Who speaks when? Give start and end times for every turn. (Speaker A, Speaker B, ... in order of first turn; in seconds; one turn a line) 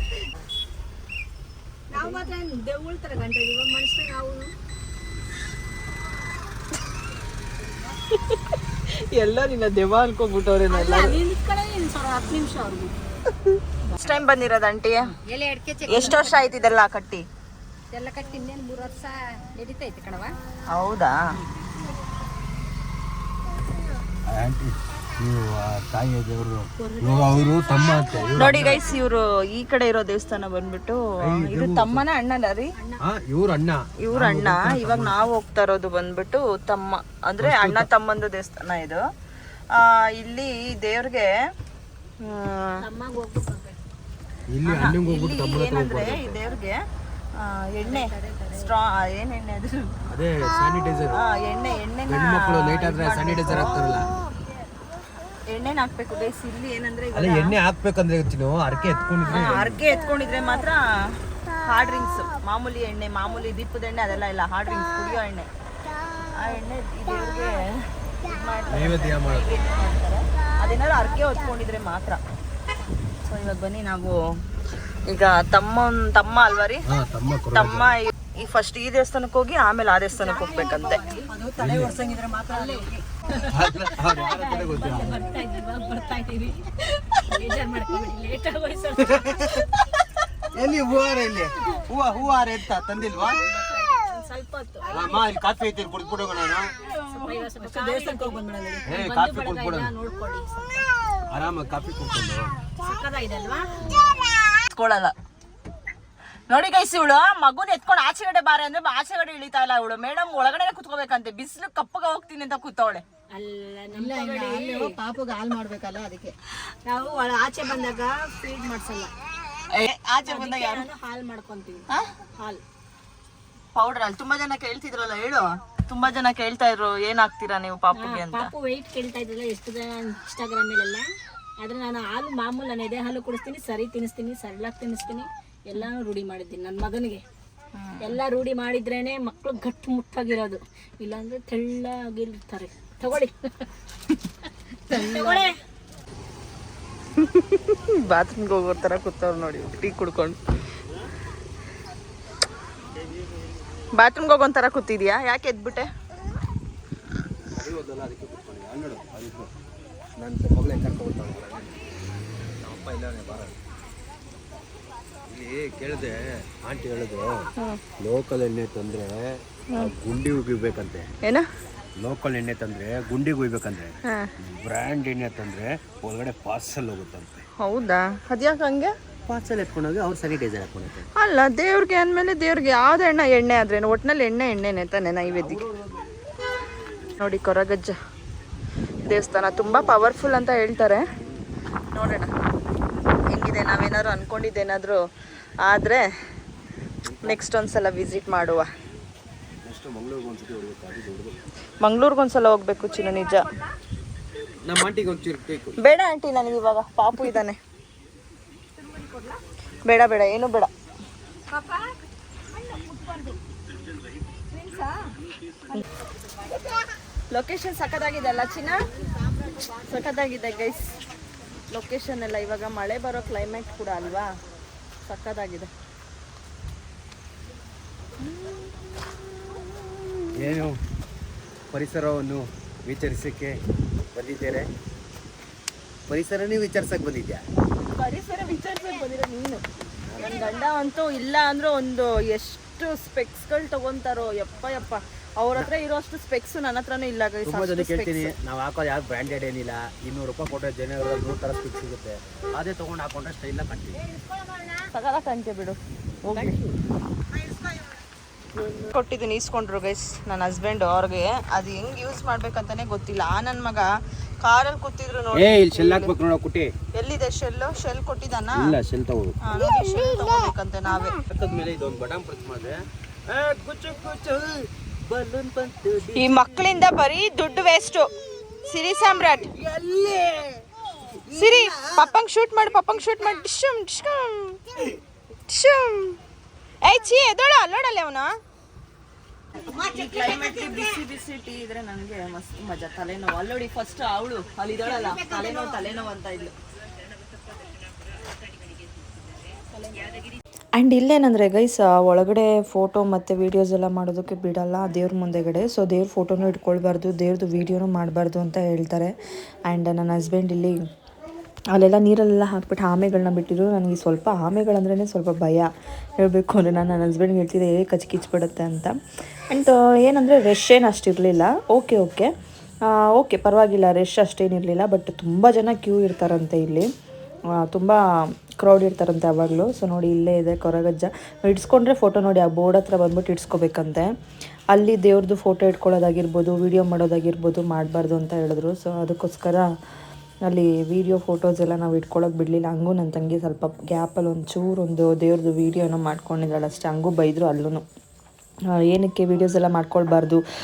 Speaker A: 1.9-4.5
Speaker B: 8.1-11.2
Speaker A: 10.7-12.9
Speaker B: 13.9-15.0
Speaker A: 15.3-16.4
Speaker B: 15.9-17.2
Speaker A: 17.9-20.3
Speaker B: 20.7-21.2
Speaker C: 24.3-28.9
Speaker A: 26.8-28.5
Speaker B: 28.4-32.7
Speaker C: 31.2-32.0
Speaker C: 33.0-35.2
Speaker B: 34.0-39.0
Speaker C: 37.4-37.9
Speaker B: 39.7-41.4
Speaker B: 42.2-42.8
Speaker A: 42.8-43.8
Speaker C: 44.5-46.4
Speaker B: 44.6-46.8
Speaker B: 47.4-49.9
Speaker A: 47.8-48.7
Speaker C: 50.1-51.2
Speaker B: 51.1-54.0
Speaker C: 52.1-54.1
Speaker B: 55.5-57.5
Speaker C: 57.1-59.8
Speaker B: 59.3-60.8
Speaker B: 61.6-65.5
Speaker B: 66.3-72.2
Speaker C: 68.7-69.6
Speaker B: 73.2-74.2
Speaker B: 75.0-76.8
Speaker C: 76.9-77.9
Speaker B: 77.5-81.0
Speaker D: 80.1-83.0
Speaker A: 81.0-81.2
Speaker C: 81.6-82.0
Speaker A: 83.4-86.6
Speaker C: 83.4-85.4
Speaker A: 87.1-89.7
Speaker C: 89.0-89.8
Speaker C: 90.5-93.4
Speaker A: 93.5-95.2
Speaker C: 94.9-96.7
Speaker A: 96.8-100.9
Speaker D: 97.6-98.8
Speaker C: 98.9-99.9
Speaker C: 101.3-102.5
Speaker A: 102.8-103.8
Speaker B: 104.7-105.1
Speaker B: 106.5-113.0
Speaker A: 113.3-115.0
Speaker D: 113.9-116.3
Speaker A: 116.8-119.1
Speaker B: 119.7-120.8
Speaker A: 120.2-122.6
Speaker B: 123.7-128.5
Speaker A: 127.9-131.1
Speaker A: 131.6-137.2
Speaker B: 137.8-138.2
Speaker A: 138.0-143.7
Speaker A: 144.9-145.6
Speaker B: 144.9-145.4
Speaker B: 147.2-150.4
Speaker B: 153.9-155.9
Speaker C: 157.5-159.5
Speaker C: 160.2-161.7
Speaker C: 162.6-163.5
Speaker C: 165.3-171.1
Speaker C: 172.0-177.4
Speaker B: 174.1-174.3
Speaker B: 177.6-178.9
Speaker C: 179.3-181.0
Speaker B: 181.2-185.6
Speaker C: 185.3-186.1
Speaker B: 187.2-187.9
Speaker B: 189.1-191.1
Speaker B: 191.9-192.3
Speaker B: 193.3-195.0
Speaker B: 195.6-196.1
Speaker C: 197.0-197.4
Speaker B: 197.2-198.7
Speaker C: 199.6-201.3
Speaker B: 201.8-203.4
Speaker A: 203.0-203.7
Speaker C: 204.6-205.8
Speaker B: 205.8-207.6
Speaker B: 209.8-210.7
Speaker A: 211.5-212.0
Speaker A: 212.5-213.4
Speaker B: 214.5-215.0
Speaker B: 217.3-218.8
Speaker D: 219.5-219.8
Speaker B: 219.8-221.0
Speaker B: 221.7-224.3
Speaker B: 225.1-225.7
Speaker C: 230.3-230.8
Speaker C: 231.7-233.6
Speaker C: 234.1-234.7
Speaker C: 236.1-237.4
Speaker B: 237.9-239.6
Speaker C: 240.0-240.4
Speaker B: 240.2-248.3
Speaker A: 240.2-240.7
Speaker C: 247.4-254.0
Speaker A: 253.9-254.9
Speaker B: 254.9-256.6
Speaker C: 256.3-256.7
Speaker B: 258.9-263.9
Speaker B: 264.4-266.1
Speaker C: 265.3-266.7
Speaker B: 266.9-268.7
Speaker C: 268.5-269.4
Speaker B: 269.4-271.2
Speaker C: 271.3-276.6
Speaker B: 276.1-278.1
Speaker B: 278.6-279.5
Speaker C: 279.6-280.6
Speaker C: 281.2-282.0
Speaker B: 281.3-284.6
Speaker B: 285.5-286.2
Speaker B: 286.8-288.4
Speaker D: 289.7-290.7
Speaker B: 289.9-296.5
Speaker D: 295.1-295.7
Speaker A: 299.7-300.2
Speaker E: 300.8-309.1
Speaker E: 309.7-310.8
Speaker E: 311.7-318.9
Speaker E: 319.5-322.3
Speaker E: 322.9-326.9
Speaker E: 327.6-328.0
Speaker E: 328.6-334.1
Speaker E: 334.7-339.7
Speaker E: 340.5-347.8
Speaker E: 348.9-350.4